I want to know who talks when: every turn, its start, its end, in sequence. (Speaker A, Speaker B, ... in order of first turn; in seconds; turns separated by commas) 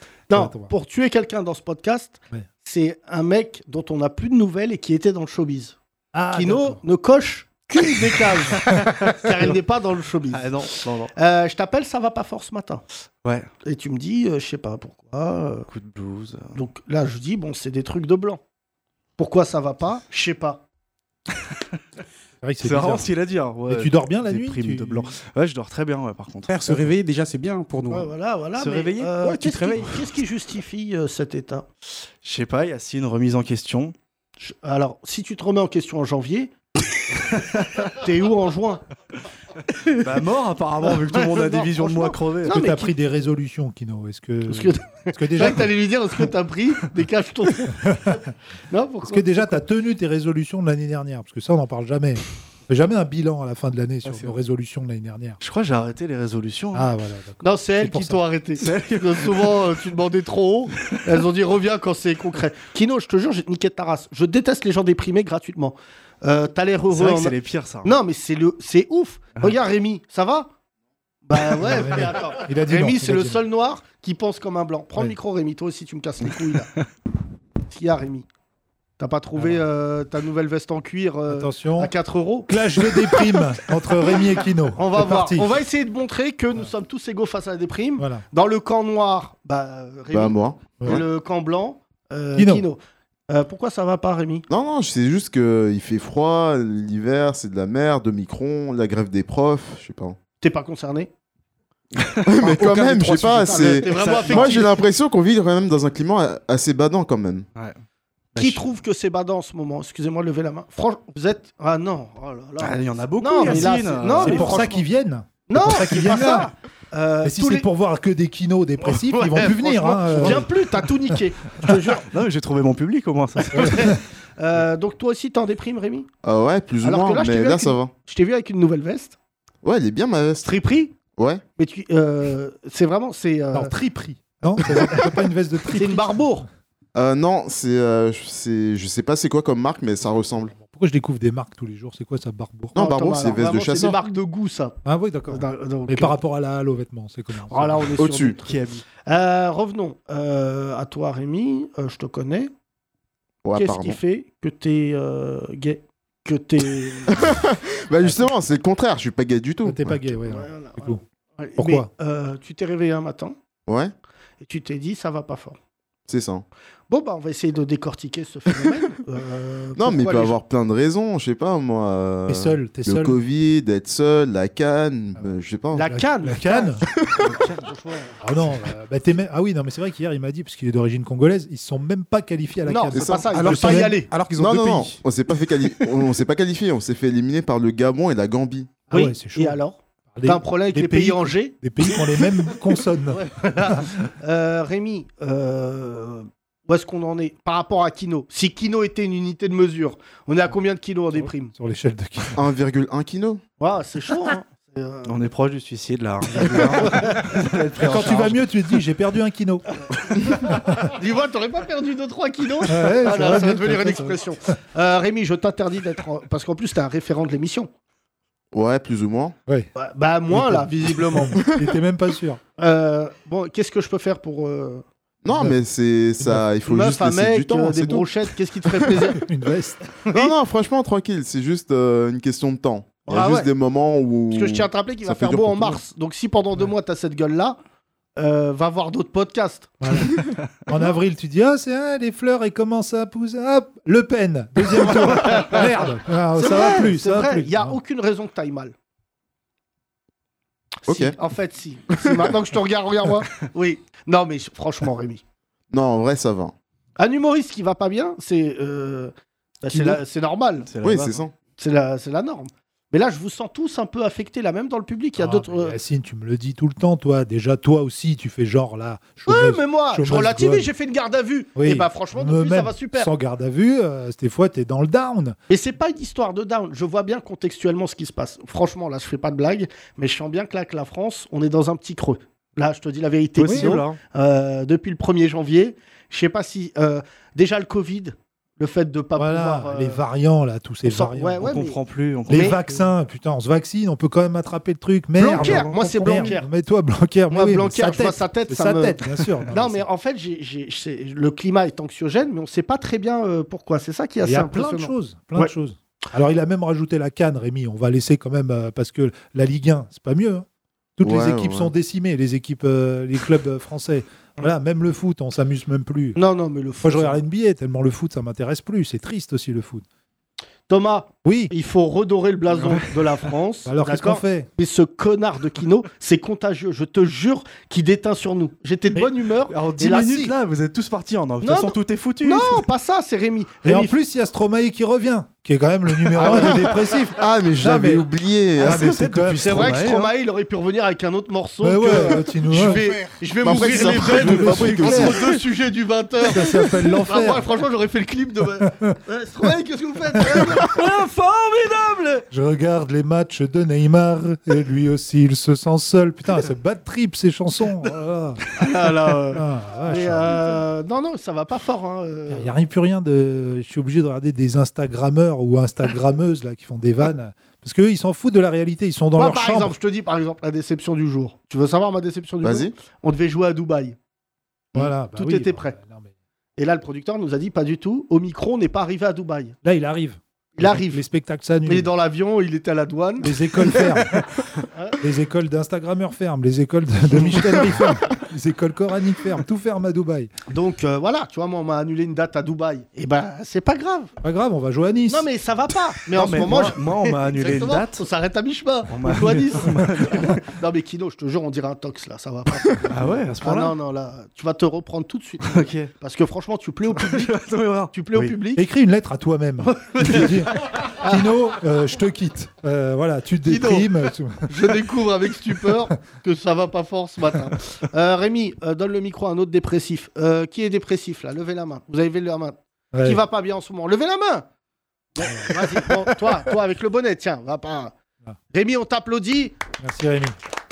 Speaker A: 0.3-5.8, Speaker B: 0.3-0.7, Speaker B: 6.1-6.8, Speaker A: 6.3-12.8, Speaker C: 10.3-11.1, Speaker C: 13.2-13.5, Speaker A: 13.6-15.7, Speaker C: 15.7-16.5, Speaker A: 16.5-18.4, Speaker A: 19.2-20.6, Speaker B: 22.4-23.1, Speaker C: 22.6-26.5, Speaker B: 23.7-25.1, Speaker D: 26.5-28.1, Speaker B: 26.7-26.9, Speaker A: 27.9-31.7, Speaker C: 28.6-29.8, Speaker D: 29.3-29.9, Speaker C: 32.2-33.9, Speaker A: 34.4-36.5, Speaker A: 37.9-38.8, Speaker C: 40.0-42.5, Speaker A: 40.9-42.9, Speaker B: 42.5-45.7, Speaker A: 44.5-49.6, Speaker B: 49.0-55.4, Speaker C: 55.4-56.9, Speaker B: 56.7-58.2, Speaker A: 57.4-70.5, Speaker C: 58.6-59.8, Speaker C: 66.9-67.9, Speaker A: 71.3-76.7, Speaker B: 71.6-73.4, Speaker A: 77.7-78.2, Speaker A: 79.0-83.3, Speaker B: 79.3-79.6, Speaker B: 81.3-81.9, Speaker B: 82.5-85.5, Speaker A: 84.8-94.5, Speaker B: 88.0-88.2, Speaker E: 90.1-91.0, Speaker B: 92.3-92.7, Speaker E: 94.5-100.2, Speaker A: 100.4-101.1, Speaker E: 102.2-107.5, Speaker A: 102.4-104.7, Speaker C: 103.9-104.6, Speaker C: 108.3-108.7, Speaker A: 108.4-114.8, Speaker C: 112.6-114.7, Speaker B: 114.1-116.5, Speaker A: 115.5-117.7, Speaker B: 117.2-120.5, Speaker A: 118.9-122.1, Speaker C: 120.1-120.5, Speaker C: 122.1-123.9, Speaker A: 123.4-126.1, Speaker E: 126.2-127.9, Speaker A: 126.8-129.2, Speaker E: 129.6-130.6, Speaker A: 130.4-130.9, Speaker E: 131.2-131.4, Speaker A: 131.6-133.7, Speaker B: 133.5-136.2, Speaker A: 135.7-136.4, Speaker E: 136.9-140.5, Speaker B: 140.5-142.8, Speaker E: 142.7-144.0, Speaker A: 142.7-144.8, Speaker B: 144.8-147.9, Speaker A: 145.3-146.2, Speaker A: 147.5-152.5, Speaker E: 148.0-148.4, Speaker C: 148.4-148.8, Speaker E: 153.4-154.0, Speaker A: 153.6-157.2, Speaker E: 157.1-160.0, Speaker B: 159.6-161.0, Speaker A: 160.2-163.3, Speaker B: 161.6-161.9, Speaker E: 163.7-163.9, Speaker A: 164.4-165.6, Speaker E: 166.1-166.4, Speaker A: 166.9-170.3, Speaker E: 169.8-175.9, Speaker B: 172.3-173.2, Speaker A: 175.7-178.2, Speaker B: 175.9-176.8, Speaker C: 177.3-177.5, Speaker B: 178.2-184.1, Speaker A: 182.7-184.1, Speaker E: 182.9-183.2, Speaker D: 183.3-185.0, Speaker E: 184.3-188.7, Speaker A: 188.9-192.0, Speaker B: 188.9-189.6, Speaker B: 190.1-193.9, Speaker A: 193.1-201.5, Speaker B: 201.1-202.4, Speaker E: 202.3-203.4, Speaker A: 203.6-205.1, Speaker C: 205.1-208.4, Speaker A: 206.4-207.3, Speaker B: 207.8-209.7, Speaker B: 210.3-210.9, Speaker A: 210.9-217.7, Speaker B: 212.7-214.2, Speaker E: 218.5-219.4, Speaker A: 219.8-221.4, Speaker B: 220.3-222.4, Speaker A: 222.6-224.8, Speaker E: 225.2-228.2, Speaker B: 225.3-225.6, Speaker B: 226.2-226.5, Speaker A: 226.7-229.3, Speaker B: 228.9-229.8, Speaker A: 230.0-230.3, Speaker E: 230.1-235.8, Speaker A: 233.0-233.5, Speaker A: 234.3-237.6, Speaker A: 238.2-240.0, Speaker B: 239.8-247.8, Speaker A: 245.2-245.6, Speaker A: 246.3-248.7, Speaker A: 250.8-255.2, Speaker E: 250.9-251.2, Speaker E: 255.7-256.5, Speaker A: 257.0-260.7, Speaker C: 260.6-261.2, Speaker E: 260.8-261.3, Speaker A: 261.6-265.8, Speaker B: 265.2-270.7, Speaker A: 269.2-273.1, Speaker B: 271.6-275.4, Speaker A: 275.5-290.0, Speaker C: 283.4-284.0, Speaker B: 283.4-283.7, Speaker B: 289.1-291.6, Speaker A: 290.8-292.6, Speaker C: 291.4-292.9, Speaker B: 292.3-299.9, Speaker A: 295.2-296.5, Speaker C: 295.4-296.3, Speaker A: 297.3-305.5, Speaker B: 304.2-310.4, Speaker B: 311.0-316.2, Speaker E: 311.0-311.7, Speaker A: 316.1-317.2, Speaker B: 316.8-319.8, Speaker A: 320.7-330.2, Speaker B: 321.2-321.5, Speaker C: 322.5-323.2, Speaker B: 323.6-324.5, Speaker C: 329.5-332.6, Speaker B: 330.0-330.3, Speaker A: 331.4-334.0, Speaker B: 333.6-338.1, Speaker E: 336.1-339.2, Speaker B: 338.6-339.8, Speaker C: 338.8-340.1, Speaker A: 339.4-350.9, Speaker B: 341.6-342.9, Speaker E: 343.4-345.4, Speaker B: 343.6-345.2, Speaker B: 346.3-347.5, Speaker B: 348.6-348.9, Speaker C: 350.8-352.2, Speaker B: 352.3-358.6, Speaker A: 358.6-362.5, Speaker B: 359.3-360.5, Speaker B: 362.3-369.7, Speaker A: 369.1-373.9, Speaker E: 372.4-372.7, Speaker B: 374.7-376.1, Speaker A: 374.8-375.7, Speaker A: 376.6-379.6, Speaker B: 379.6-381.9, Speaker A: 380.6-381.0, Speaker A: 381.6-383.8, Speaker B: 383.2-384.3, Speaker B: 385.0-390.3, Speaker A: 390.5-394.1, Speaker B: 394.2-395.3, Speaker A: 395.1-407.4, Speaker C: 396.1-398.1, Speaker C: 398.9-400.4, Speaker C: 402.9-403.8, Speaker C: 405.4-405.9, Speaker C: 406.9-408.4, Speaker A: 407.9-408.6, Speaker B: 408.5-414.7, Speaker A: 410.0-410.3, Speaker A: 410.8-411.3, Speaker A: 413.4-413.9, Speaker A: 414.5-424.4, Speaker B: 422.9-423.2, Speaker A: 425.1-427.9, Speaker A: 428.5-429.6, Speaker B: 429.8-430.4